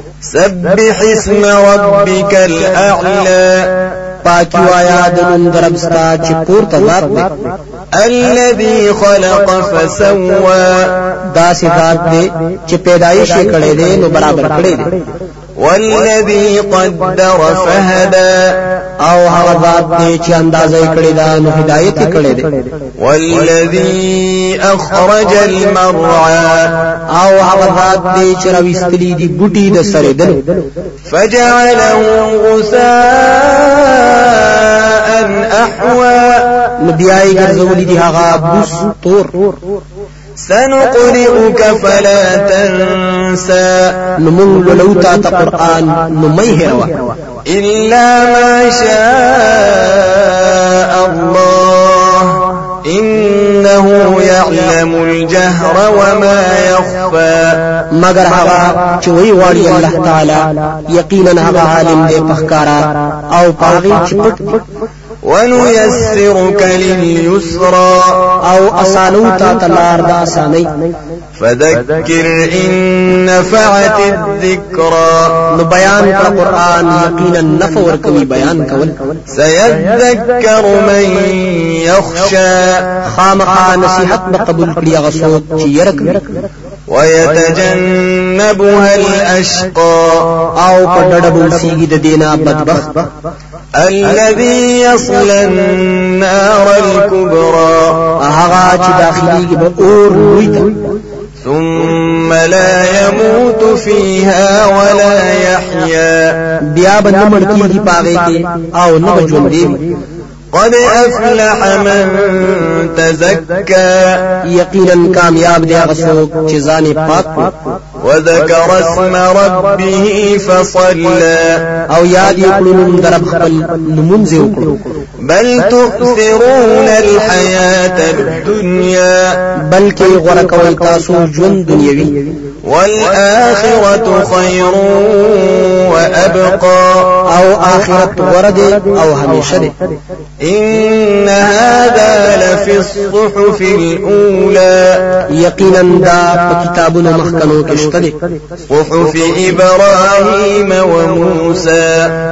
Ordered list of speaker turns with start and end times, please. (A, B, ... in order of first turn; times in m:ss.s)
0:00.3-0:03.8 A
0:04.2-0:07.3 B
0:08.0-0:11.0 A
0:11.3-0:15.0 B
0:15.6-0:18.6 A
0:19.0-0:22.5 B
0:23.0-0:26.8 A
0:27.1-0:30.4 B
0:31.1-0:36.5 A
0:36.8-0:39.4 B
0:40.4-0:44.1 A
0:44.2-0:47.1 B
0:47.5-0:57.7 A
0:57.9-1:04.6 B
1:05.2-1:08.4 A
1:08.4-1:10.7 B
1:11.4-1:15.5 A
1:15.5-1:19.0 B
1:19.3-1:23.0 A
1:23.0-1:26.4 B
1:26.9-1:30.4 A
1:30.6-1:33.1 B
1:33.8-1:38.0 A
1:38.2-1:40.8 B
1:41.4-1:46.4 A
1:46.6-1:49.8 B
1:50.5-1:54.4 A
1:54.4-1:57.5 B
1:58.0-2:01.7 A
2:01.9-2:04.8 B
2:05.2-2:09.4 A
2:09.6-2:12.2 B
2:12.6-2:17.2 A
2:17.3-2:19.7 B
2:20.4-2:25.0 A
2:25.3-2:28.2 B
2:28.7-2:32.1 A